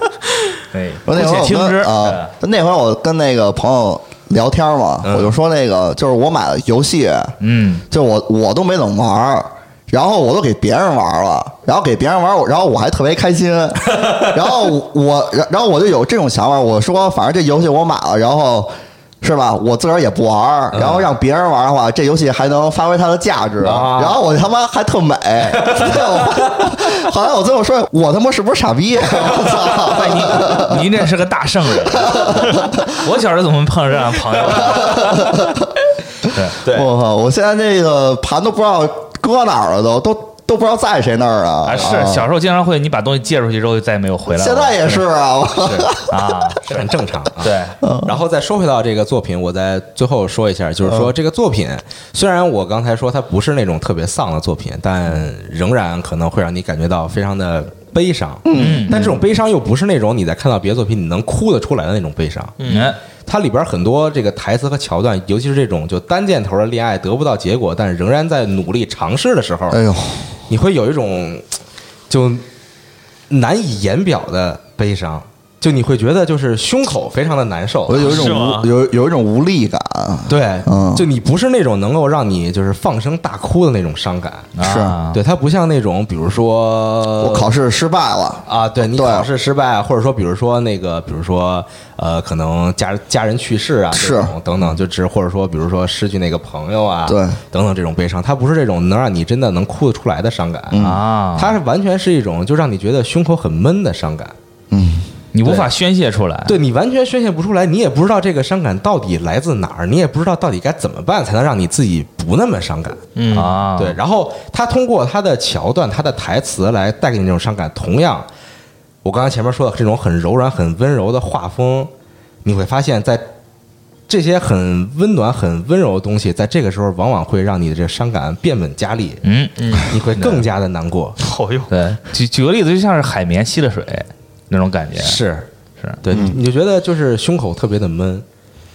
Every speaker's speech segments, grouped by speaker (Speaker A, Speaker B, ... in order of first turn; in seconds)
Speaker A: 0.7-2.3, 7.4-7.8, 29.8-35.5, 36.2-36.6, 41.6-45.0, 46.1-46.9, 47.4-47.8, 58.5-59.0, 62.6-63.0, 84.5-85.2, 100.8-101.6, 105.3-106.6, 113.3-114.0, 129.2-130.4, 131.7-135.2
Speaker B: 1.1-7.4, 7.9-31.1, 31.8-32.8, 34.5-35.6, 36.6-42.3, 44.3-46.5, 47.8-48.1, 58.4-59.2, 69.7-70.3, 77.9-81.0, 84.6-85.0, 87.2-89.3, 93.9-94.3, 97.0-97.4, 100.7-101.0, 104.7-105.1, 136.1-136.4
Speaker C: 5.0-5.3, 20.7-21.1, 23.6-24.2, 25.5-26.6, 29.3-29.7, 36.6-36.9, 45.6-45.9, 46.6-62.5, 63.2-69.8, 70.5-71.5, 72.1-72.4, 73.3-78.3, 80.3-84.5, 85.1-87.5, 88.5-104.3, 105.4-105.7, 106.5-118.3, 119.0-121.9, 122.4-123.3, 124.1-129.2, 129.9-131.2, 135.0-135.5, 136.0-138.2
Speaker D: 62.6-62.9, 78.0-78.7, 113.2-113.6, 129.6-129.9, 131.2-131.7